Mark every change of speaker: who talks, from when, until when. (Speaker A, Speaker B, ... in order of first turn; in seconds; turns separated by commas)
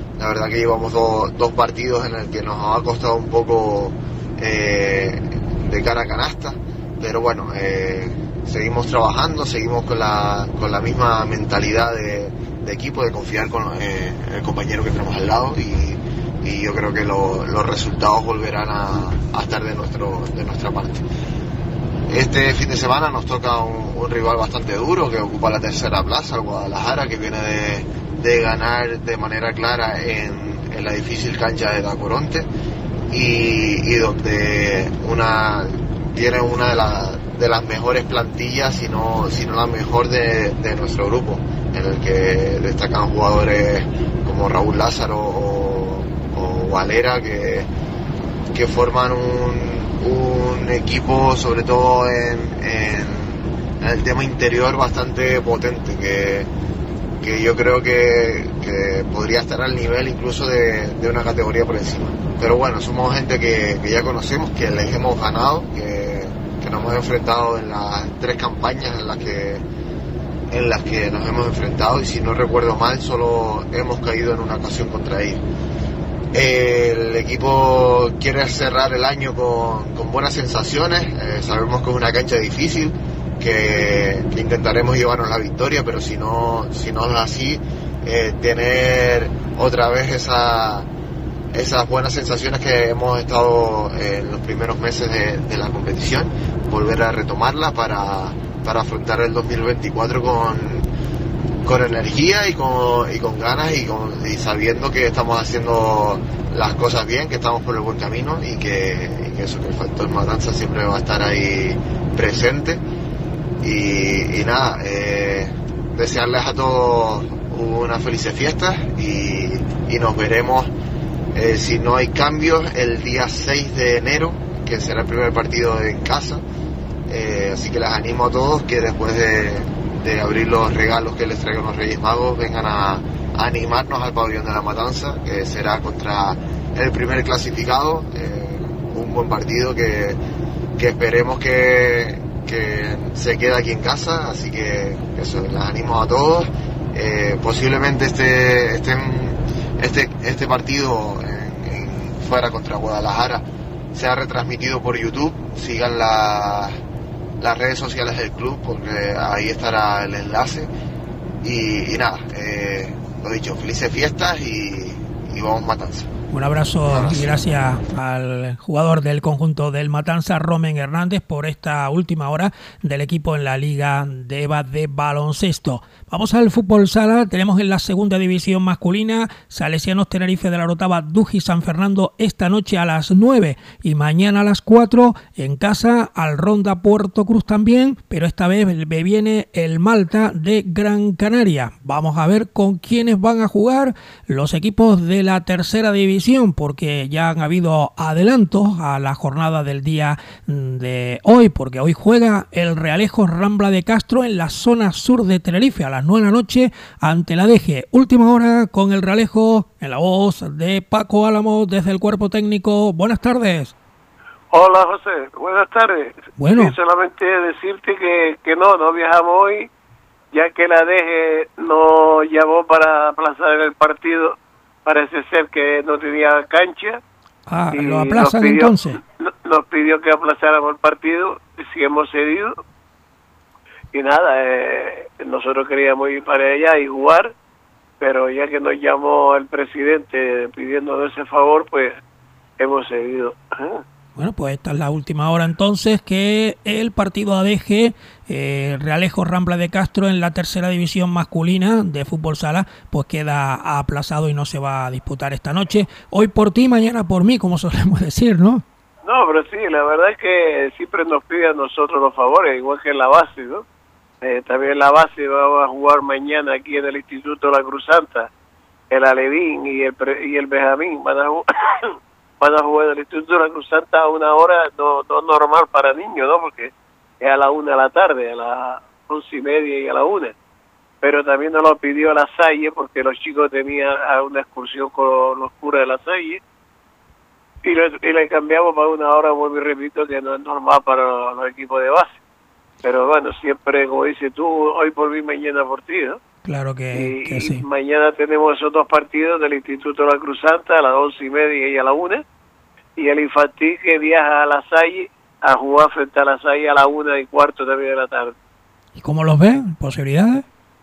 Speaker A: 0.2-21.0, Speaker A: 22.1-32.5, Speaker A: 33.1-47.7, Speaker A: 48.5-56.5, Speaker A: 57.2-69.7, Speaker A: 70.5-75.4, Speaker A: 76.3-90.9, Speaker A: 91.5-100.9, Speaker A: 101.6-112.8, Speaker A: 113.6-120.7, Speaker A: 121.3-126.4, Speaker A: 127.1-140.2, Speaker A: 140.8-153.4, Speaker A: 153.9-156.8, Speaker A: 157.4-160.7, Speaker A: 161.4-166.1, Speaker B: 166.3-213.7, Speaker A: 166.9-167.3, Speaker C: 214.5-219.7, Speaker B: 216.4-216.8, Speaker C: 220.3-227.0, Speaker B: 227.5-229.0, Speaker C: 227.7-232.6, Speaker C: 233.9-237.3, Speaker C: 238.0-242.0, Speaker C: 242.6-243.8, Speaker B: 244.2-258.6, Speaker C: 259.0-263.6, Speaker C: 264.2-268.3, Speaker C: 268.9-280.3, Speaker C: 281.0-286.4, Speaker C: 287.6-292.1, Speaker C: 292.8-296.2, Speaker B: 296.4-297.6, Speaker C: 296.9-302.2, Speaker C: 303.0-308.3, Speaker B: 309.0-310.4